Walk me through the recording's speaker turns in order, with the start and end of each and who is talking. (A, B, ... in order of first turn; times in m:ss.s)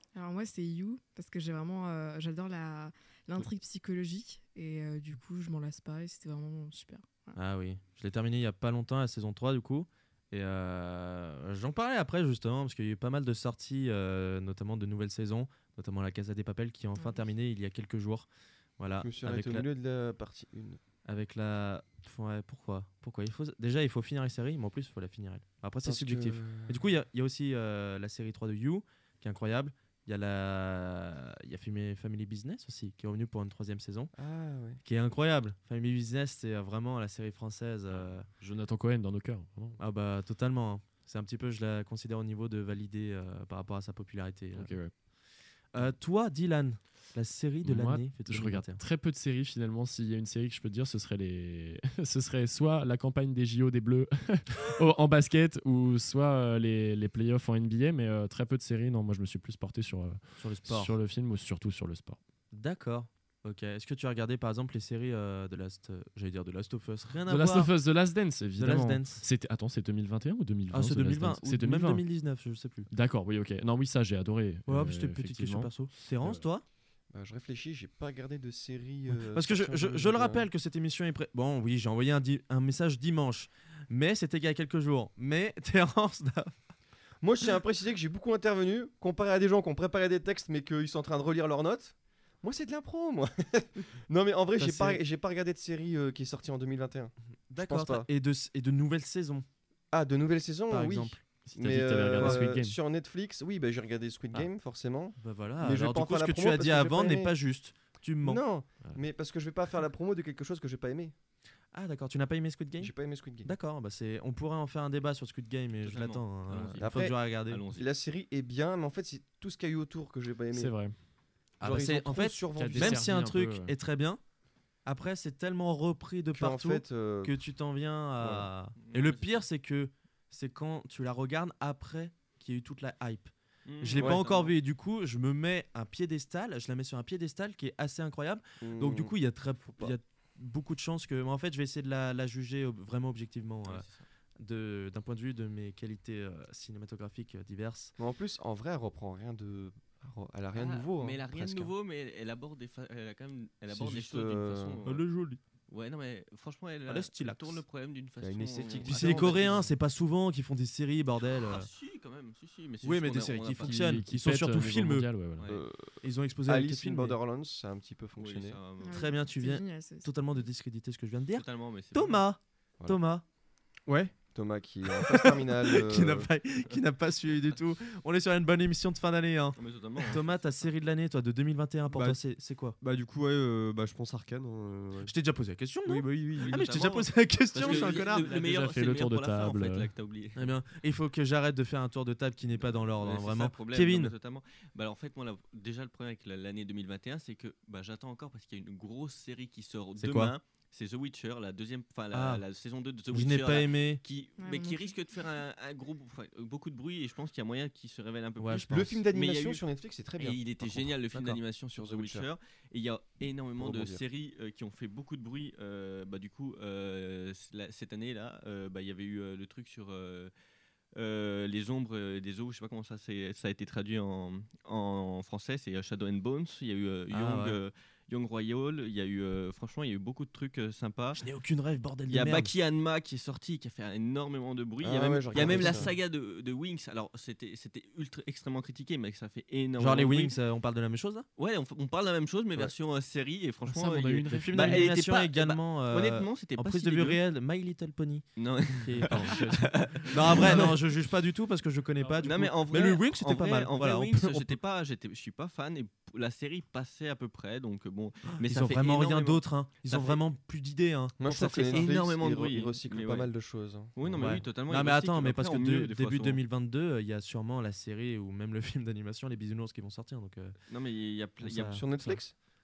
0:00.1-0:07.4 A
0:07.4-0:18.3 B
0:18.8-0:19.7 B
0:19.0-0:20.8 C
0:21.0-0:34.1 B
0:25.8-0:26.8 C
0:34.1-0:34.8 C
0:34.8-0:38.3 B
0:38.4-0:39.8 D
0:39.8-0:44.8 B
0:44.5-0:44.9 D
0:45.7-0:48.8 B
0:47.6-1:02.2 D
1:00.4-1:00.9 B
1:02.5-1:07.7 B
1:07.3-1:12.0 D
1:08.6-1:09.2 B
1:10.7-1:12.9 B
1:12.9-1:16.4 D
1:14.7-1:16.6 B
1:17.1-1:20.4 C
1:19.1-1:26.5 B
1:27.2-1:38.1 C
1:34.6-1:34.9 D
1:34.6-1:35.0 B
1:37.5-1:39.4 B
1:39.9-1:47.3 C
1:40.7-1:41.2 B
1:41.4-1:42.8 D
1:42.1-1:42.4 B
1:45.2-1:48.4 B
1:48.2-1:51.1 C
1:51.7-1:57.6 B
1:52.8-1:53.5 C
1:55.8-1:57.9 E
1:56.8-2:00.8 C
2:00.5-2:01.0 D
2:01.6-2:03.2 C
2:01.6-2:04.2 B
2:02.5-2:03.7 D
2:04.8-2:23.8 B
2:06.3-2:07.4 C
2:08.2-2:08.5 C
2:08.8-2:09.4 E
2:13.6-2:14.5 E
2:13.9-2:14.2 C
2:18.6-2:19.1 C
2:19.7-2:19.9 C
2:23.6-2:24.0 E
2:24.4-2:27.9 B
2:28.0-2:31.7 C
2:30.5-2:35.0 E
2:33.7-2:34.8 C
2:34.8-2:35.4 B
2:35.7-2:39.7 E
2:36.9-2:37.6 B
2:38.2-2:39.7 C
2:38.7-2:41.7 B
2:41.2-2:43.9 E
2:42.8-2:45.1 B
2:43.6-2:45.5 D
2:45.5-2:48.6 C
2:46.0-2:47.2 B
2:48.2-2:49.0 E
2:48.8-2:50.1 A
2:48.9-2:53.2 B
2:51.3-2:52.2 E
2:54.1-2:56.3 C
2:55.0-3:02.8 B
2:59.6-3:00.4 E
3:01.9-3:02.2 F
3:02.8-3:05.1 F
3:05.0-3:08.3 B
3:05.9-3:06.6 C
3:06.4-3:10.5 E
3:07.6-3:08.0 C
3:08.2-3:09.9 D
3:10.4-3:14.1 B
3:12.7-3:29.6 E
3:20.0-3:20.3 B
3:22.1-3:22.4 B
3:23.1-3:24.0 B
3:24.4-3:24.9 A
3:28.4-3:29.0 B
3:28.7-3:31.2 C
3:30.2-3:40.3 E
3:31.7-3:32.3 C
3:33.6-3:34.0 C
3:40.9-3:51.2 E
3:47.1-3:47.6 B
3:51.2-3:52.5 B
3:52.1-4:00.4 E
3:54.8-3:55.9 C
3:55.4-3:55.9 B
3:59.8-4:01.2 B
4:01.4-4:07.2 E
4:03.7-4:04.9 D
4:04.3-4:14.6 B
4:08.4-4:10.8 E
4:12.2-4:20.2 E
4:18.4-4:21.9 B
4:21.2-4:24.4 C
4:21.4-4:23.3 E
4:23.9-4:26.4 E
4:24.1-4:30.5 B
4:30.7-4:31.8 E
4:31.4-4:32.2 B
4:31.4-4:32.3 C